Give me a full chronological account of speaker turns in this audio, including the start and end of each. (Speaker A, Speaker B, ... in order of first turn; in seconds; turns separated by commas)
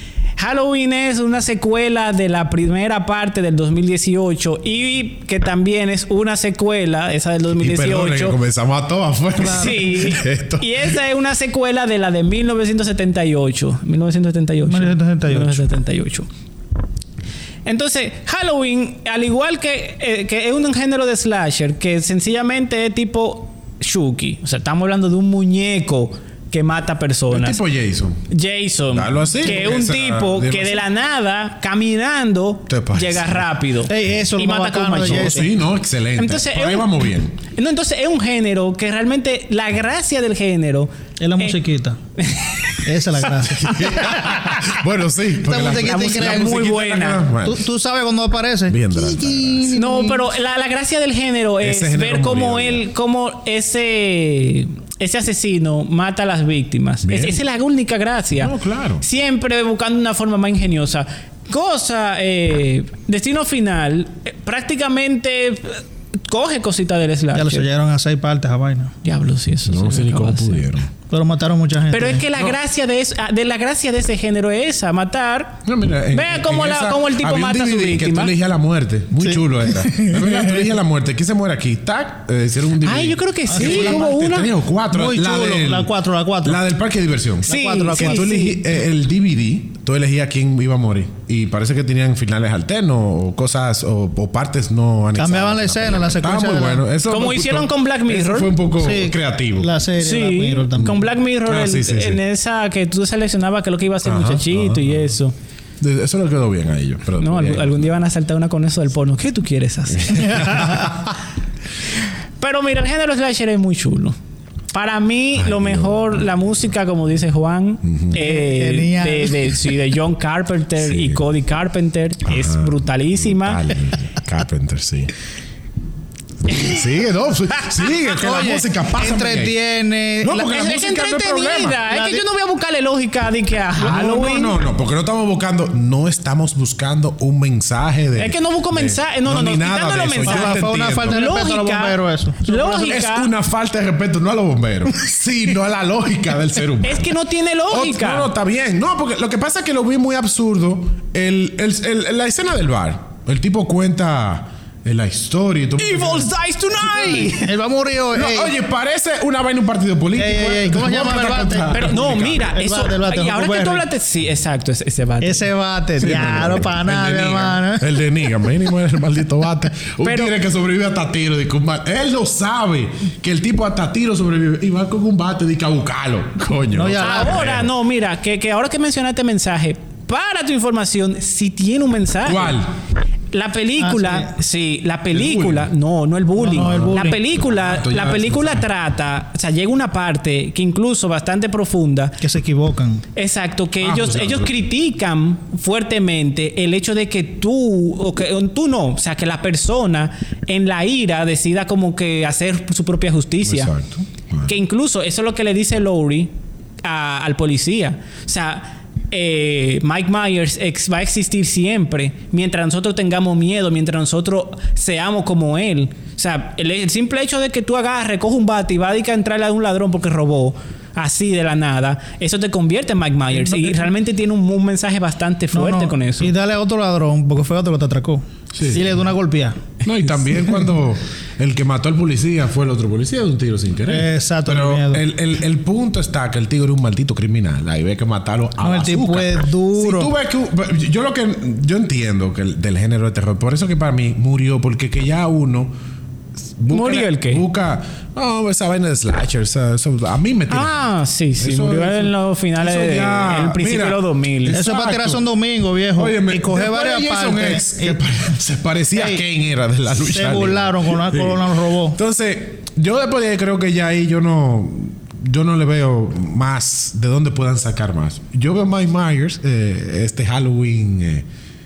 Speaker A: 0.4-8.3, Speaker B: 7.6-10.9, Speaker A: 9.4-16.3, Speaker C: 9.4-9.8, Speaker C: 14.7-15.7, Speaker A: 17.6-27.6, Speaker B: 27.3-28.2, Speaker A: 28.3-35.5, Speaker B: 28.9-30.8, Speaker B: 32.7-33.4, Speaker C: 33.9-35.5, Speaker B: 35.0-37.4, Speaker A: 36.1-41.6, Speaker C: 41.2-42.0, Speaker A: 42.2-44.6, Speaker C: 42.8-44.6, Speaker B: 43.5-47.6, Speaker C: 45.4-46.6, Speaker A: 45.8-47.3, Speaker C: 47.4-50.2, Speaker B: 48.7-49.9, Speaker A: 49.7-67.7, Speaker B: 51.6-52.8, Speaker B: 57.0-57.4, Speaker B: 58.4-59.0, Speaker C: 67.3-68.9, Speaker A: 69.0-70.7, Speaker B: 69.7-70.9, Speaker C: 71.1-72.2, Speaker A: 71.9-75.6, Speaker B: 75.6-85.9, Speaker A: 76.1-78.3, Speaker C: 79.8-80.5, Speaker A: 82.8-84.5, Speaker C: 83.5-84.0, Speaker C: 84.9-86.6, Speaker B: 86.4-99.7, Speaker A: 87.5-88.3, Speaker C: 87.5-88.6, Speaker C: 95.2-96.8, Speaker A: 97.1-98.6, Speaker C: 98.8-101.1, Speaker A: 100.0-105.3, Speaker B: 100.8-102.2, Speaker B: 104.0-104.9, Speaker B: 105.8-107.9, Speaker A: 107.2-110.9, Speaker B: 110.2-110.7, Speaker A: 112.4-114.1, Speaker A: 114.7-123.6, Speaker B: 115.4-116.2, Speaker B: 117.8-118.2, Speaker C: 118.1-119.5, Speaker B: 120.8-121.2, Speaker B: 122.3-125.1, Speaker B: 126.5-129.6, Speaker C: 128.0-130.4, Speaker B: 130.2-131.8, Speaker A: 130.3-134.6, Speaker C: 131.8-132.2, Speaker B: 133.8-141.2, Speaker A: 138.2-143.3, Speaker C: 140.2-143.0, Speaker B: 142.9-147.1, Speaker A: 146.8-148.3, Speaker B: 147.7-156.3, Speaker A: 155.8-157.5, Speaker C: 157.3-158.5, Speaker B: 158.1-162.5, Speaker C: 160.1-163.9, Speaker A: 161.7-165.5, Speaker C: 165.2-168.3, Speaker B: 166.0-177.7, Speaker A: 170.0-170.3, Speaker C: 176.7-177.4, Speaker A: 177.0-182.6, Speaker B: 182.2-182.7, Speaker A: 183.3-192.2, Speaker C: 183.8-184.3, Speaker B: 185.1-185.7, Speaker C: 186.4-187.2, Speaker B: 186.6-188.6, Speaker C: 192.2-193.0, Speaker A: 193.1-203.7, Speaker B: 193.8-194.6, Speaker B: 203.4-204.5, Speaker A: 204.4-206.3, Speaker A: 206.8-226.3, Speaker C: 225.5-229.6, Speaker B: 228.5-228.8, Speaker B: 229.8-245.7, Speaker C: 233.9-235.0, Speaker C: 238.6-240.1, Speaker B: 246.6-250.7, Speaker A: 246.7-247.4, Speaker A: 250.5-254.6, Speaker B: 251.4-255.2, Speaker C: 254.5-258.0, Speaker B: 255.9-271.2, Speaker C: 258.9-259.2, Speaker C: 260.1-262.0